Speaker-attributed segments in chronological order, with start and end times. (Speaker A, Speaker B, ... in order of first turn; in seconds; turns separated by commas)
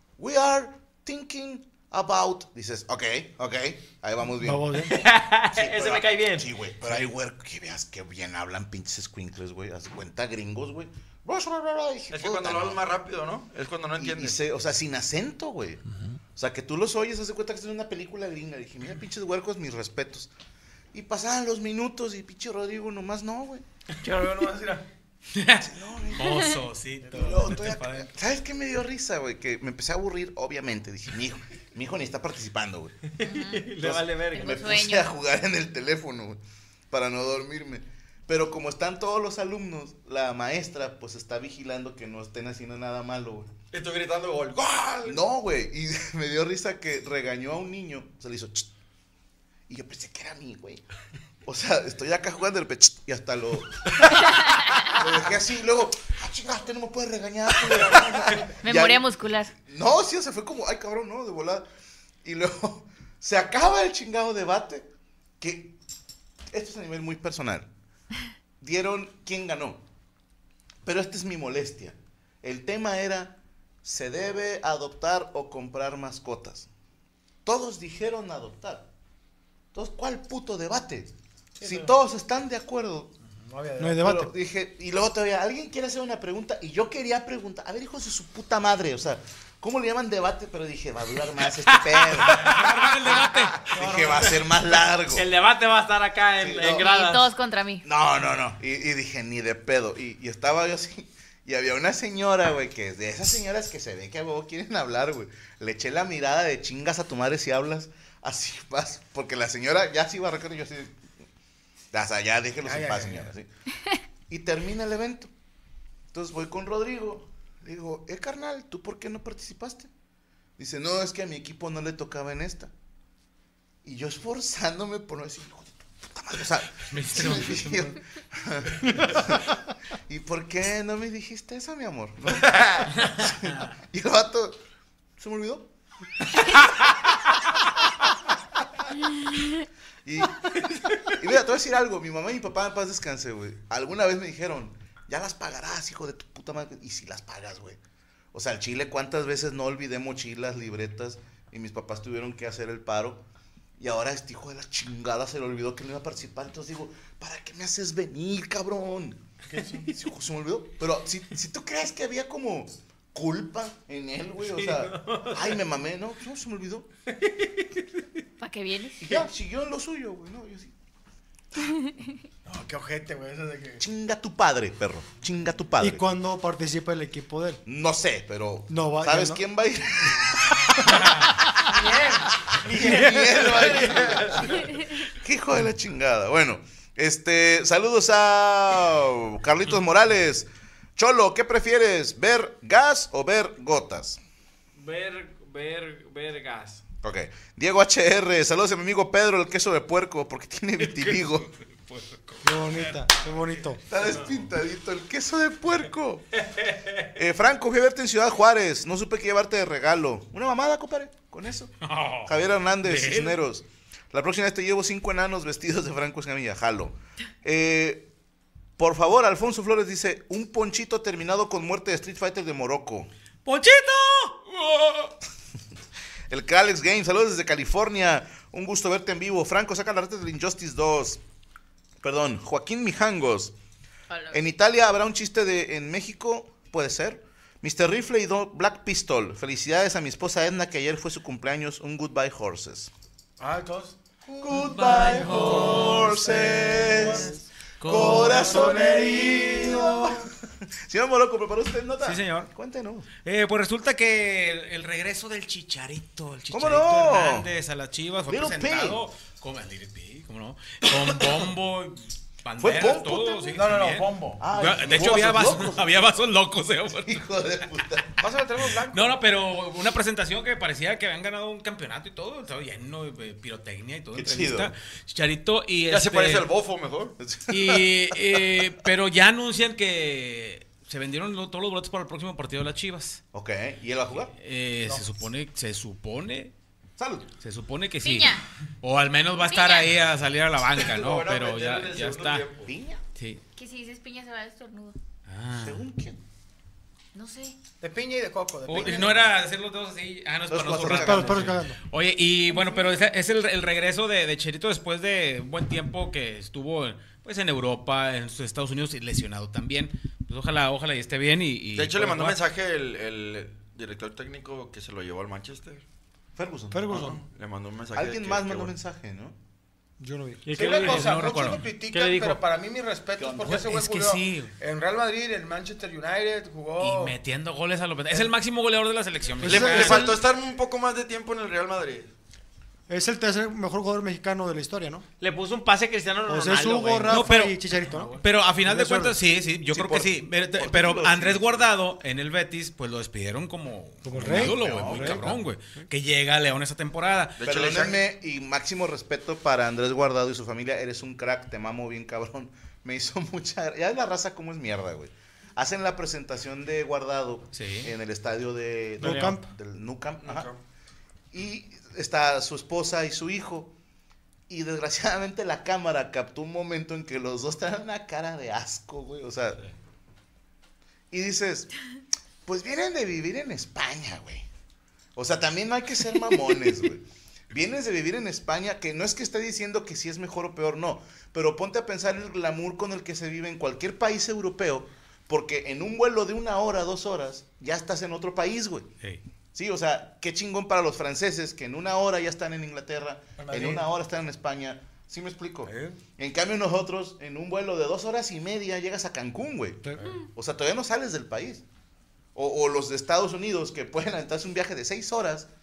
Speaker A: 0.2-4.9, Speaker B: 4.4-5.0, Speaker C: 4.8-6.5, Speaker A: 5.5-12.8, Speaker D: 12.1-14.4, Speaker A: 14.0-15.8, Speaker A: 16.4-20.3, Speaker A: 20.9-23.6, Speaker E: 24.0-24.8, Speaker F: 25.3-28.1, Speaker A: 25.6-26.5, Speaker A: 27.1-33.2, Speaker E: 27.1-27.4, Speaker G: 33.2-33.7, Speaker C: 33.2-34.6, Speaker A: 33.8-36.4, Speaker G: 34.2-35.1, Speaker A: 36.9-43.5, Speaker D: 43.7-45.2, Speaker A: 45.0-48.7, Speaker A: 49.7-50.8, Speaker A: 51.4-61.6, Speaker G: 58.6-59.5, Speaker A: 62.2-64.9, Speaker A: 65.4-65.8, Speaker A: 66.5-67.7, Speaker A: 68.6-69.8, Speaker A: 70.8-76.7, Speaker A: 77.4-78.9, Speaker A: 79.7-83.1, Speaker E: 81.6-81.9, Speaker E: 83.4-84.1, Speaker B: 83.8-84.3, Speaker A: 84.0-95.2, Speaker F: 92.2-94.3, Speaker C: 95.1-97.2, Speaker A: 96.4-96.8, Speaker G: 96.8-97.8, Speaker A: 97.8-111.0, Speaker A: 111.9-113.5, Speaker E: 112.6-113.3, Speaker A: 114.3-115.3, Speaker A: 116.1-119.9, Speaker A: 120.6-122.7, Speaker A: 123.8-129.6, Speaker F: 126.8-128.0, Speaker A: 130.1-134.6, Speaker A: 135.2-135.7, Speaker A: 140.0-147.8, Speaker A: 148.3-153.2, Speaker A: 153.8-159.2, Speaker E: 159.5-159.9, Speaker A: 159.8-166.9, Speaker C: 164.5-165.3, Speaker G: 168.4-169.1, Speaker A: 169.0-170.7, Speaker E: 172.4-173.8, Speaker A: 173.8-176.0, Speaker B: 175.8-177.6, Speaker A: 177.7-181.1, Speaker B: 178.7-179.4, Speaker F: 180.9-181.2, Speaker E: 181.7-184.5, Speaker A: 182.4-194.2, Speaker C: 194.8-196.8, Speaker A: 197.0-201.5, Speaker F: 200.8-203.1, Speaker B: 202.4-203.8, Speaker A: 203.9-206.4, Speaker A: 207.1-211.7, Speaker F: 211.8-213.4, Speaker A: 212.2-218.1, Speaker A: 218.8-223.1, Speaker F: 223.4-225.1, Speaker A: 226.3-231.2, Speaker A: 232.0-233.5, Speaker G: 234.1-234.4, Speaker A: 234.3-242.9, Speaker E: 243.4-250.2, Speaker A: 244.4-250.3, Speaker F: 244.5-247.1, Speaker F: 247.8-248.8, Speaker A: 250.8-253.1, Speaker F: 252.0-252.5, Speaker F: 253.2-267.2, Speaker A: 256.5-257.5, Speaker A: 258.3-259.0, Speaker A: 262.6-263.6, Speaker E: 263.5-264.4, Speaker A: 264.4-266.0, Speaker A: 267.0-268.2, Speaker E: 268.2-269.2, Speaker F: 268.9-276.5, Speaker A: 274.1-274.7, Speaker D: 275.9-277.1, Speaker A: 277.2-278.5, Speaker F: 277.5-283.2, Speaker A: 283.3-284.3, Speaker F: 284.3-286.5, Speaker A: 287.0-287.3, Speaker F: 287.4-292.5, Speaker G: 288.0-288.4, Speaker G: 289.4-289.9, Speaker D: 290.8-292.7, Speaker A: 292.6-293.0, Speaker F: 293.1-293.4, Speaker G: 293.5-294.9, Speaker F: 295.3-295.8, Speaker A: 295.6-296.2, Speaker G: 297.1-297.6, Speaker E: 297.8-299.2, Speaker F: 298.6-312.4, Speaker A: 300.5-301.5, Speaker B: 300.9-301.8, Speaker D: 311.7-315.8, Speaker A: 316.4-317.1, Speaker B: 316.7-317.2, Speaker D: 316.9-318.7, Speaker A: 317.9-319.3, Speaker B: 320.0-320.5, Speaker C: 320.4-322.4, Speaker E: 320.5-327.1, Speaker F: 320.6-321.7, Speaker A: 323.2-323.6, Speaker F: 323.4-324.5, Speaker F: 326.8-330.2, Speaker B: 329.4-330.2, Speaker D: 329.4-332.1, Speaker B: 332.9-335.0, Speaker C: 335.2-338.1, Speaker B: 336.3-339.1, Speaker F: 337.1-347.4, Speaker A: 339.7-341.7, Speaker B: 344.0-345.2, Speaker A: 344.1-345.4, Speaker D: 347.4-348.0, Speaker A: 347.4-360.5, Speaker F: 357.5-357.9, Speaker B: 359.0-359.5, Speaker F: 359.0-359.3, Speaker D: 360.2-360.6, Speaker A: 361.3-363.7, Speaker A: 364.5-369.6, Speaker A: 371.1-371.7, Speaker A: 372.4-374.4, Speaker A: 375.1-388.9, Speaker A: 389.5-401.6, Speaker E: 393.4-393.9, Speaker E: 395.6-396.0, Speaker A: 402.3-405.5